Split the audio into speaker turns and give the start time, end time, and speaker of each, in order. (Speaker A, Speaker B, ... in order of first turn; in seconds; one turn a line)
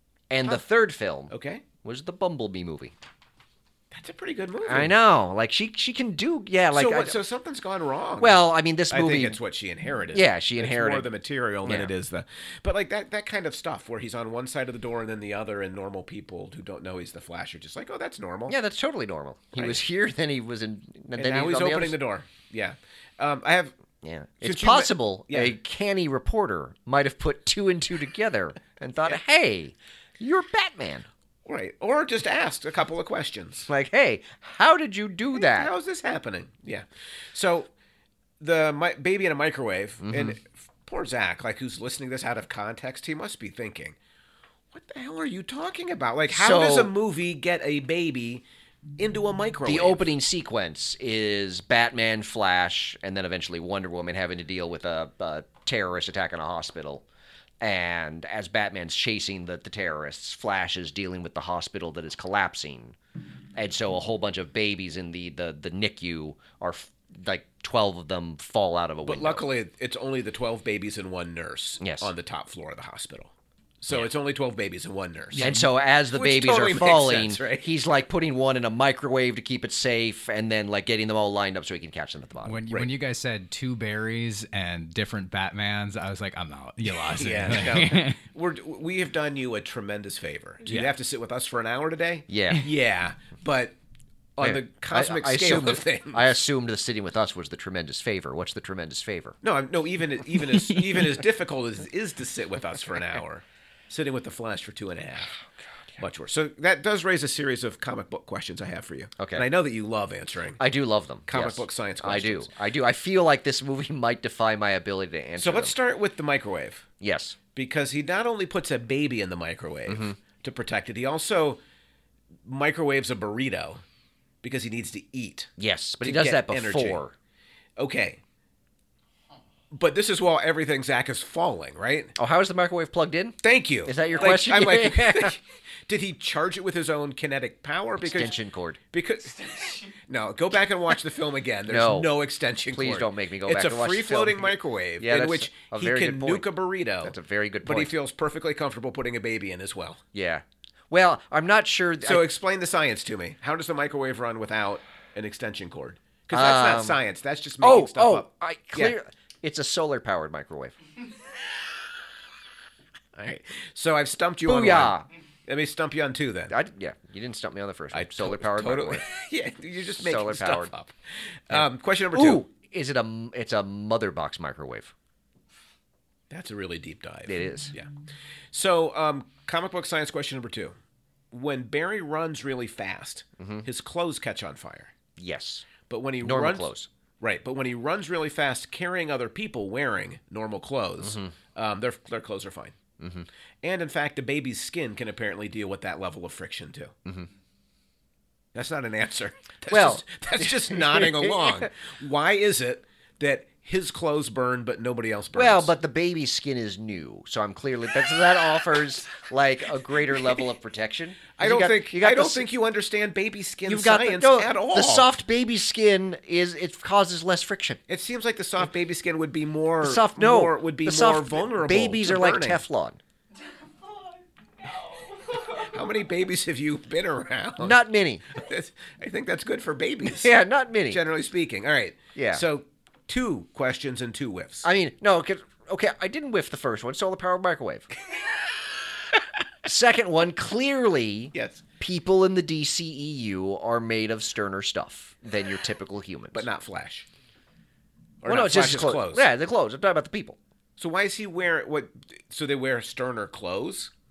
Speaker A: 0.3-1.3
Speaker B: 1.3-1.6
Speaker A: 1.8-2.9
Speaker B: 3.9-4.9
Speaker A: 4.7-7.2
Speaker B: 6.7-18.6
Speaker A: 8.2-9.4
Speaker A: 10.1-11.1
Speaker A: 11.7-11.9
Speaker A: 18.5-22.0
Speaker B: 19.6-19.8
Speaker B: 21.2-23.7
Speaker A: 24.0-31.1
Speaker B: 24.4-25.6
Speaker B: 31.5-33.7
Speaker A: 33.7-35.7
Speaker B: 35.3-37.7
Speaker B: 38.4-44.0
Speaker A: 40.0-40.4
Speaker B: 44.7-48.4
Speaker A: 46.3-46.9
Speaker B: 49.0-50.1
Speaker A: 49.6-57.0
Speaker A: 57.6-63.0
Speaker A: 63.6-69.5
Speaker B: 69.0-75.5
Speaker A: 71.8-72.1
Speaker C: 75.3-75.7
Speaker A: 75.4-82.7
Speaker B: 76.1-77.7
Speaker C: 82.5-88.2
Speaker B: 87.1-93.8
Speaker A: 92.3-92.7
Speaker B: 94.4-96.3
Speaker A: 94.4-99.4
Speaker B: 99.4-105.3
Speaker B: 106.0-110.6
Speaker A: 109.2-109.5
Speaker A: 110.6-115.8
Speaker B: 111.3-112.5
Speaker B: 115.4-116.9
Speaker A: 117.0-117.4
Speaker B: 117.5-121.6
Speaker A: 119.9-120.2
Speaker B: 122.5-123.8
Speaker B: 124.4-125.5
Speaker A: 125.6-127.1
Speaker B: 126.0-127.0
Speaker B: 127.8-128.2
Speaker B: 129.7-132.2
Speaker A: 132.2-135.3
Speaker B: 133.4-138.4
Speaker A: 138.0-138.8
Speaker B: 138.9-150.0
Speaker A: 141.7-142.1
Speaker A: 142.7-146.5
Speaker A: 147.0-147.9
Speaker A: 150.1-152.3
Speaker B: 152.0-159.0
Speaker A: 156.3-157.0
Speaker A: 157.6-160.8
Speaker B: 163.2-164.9
Speaker A: 164.5-165.1
Speaker B: 165.5-166.6
Speaker A: 166.5-169.1
Speaker B: 167.9-170.9
Speaker A: 170.0-170.7
Speaker B: 171.5-172.5
Speaker A: 171.5-174.9
Speaker B: 176.3-177.9
Speaker A: 177.3-177.7
Speaker B: 178.5-180.8
Speaker B: 181.3-184.9
Speaker A: 183.4-183.7
Speaker A: 185.2-185.7
Speaker B: 185.9-192.8
Speaker A: 186.2-186.9
Speaker A: 191.0-191.3
Speaker A: 193.0-193.3
Speaker B: 193.6-196.9
Speaker B: 198.5-205.7
Speaker A: 199.7-201.7
Speaker A: 205.3-212.5
Speaker B: 211.4-215.1
Speaker A: 213.7-217.8
Speaker B: 217.9-222.6
Speaker A: 219.8-223.0
Speaker B: 225.3-230.3
Speaker A: 227.6-228.2
Speaker A: 230.0-231.0
Speaker B: 230.9-234.7
Speaker A: 232.2-232.4
Speaker A: 234.6-237.9
Speaker A: 239.6-246.5
Speaker B: 241.3-241.6
Speaker B: 246.3-247.1
Speaker B: 248.2-249.3
Speaker A: 248.3-250.4
Speaker B: 250.8-253.9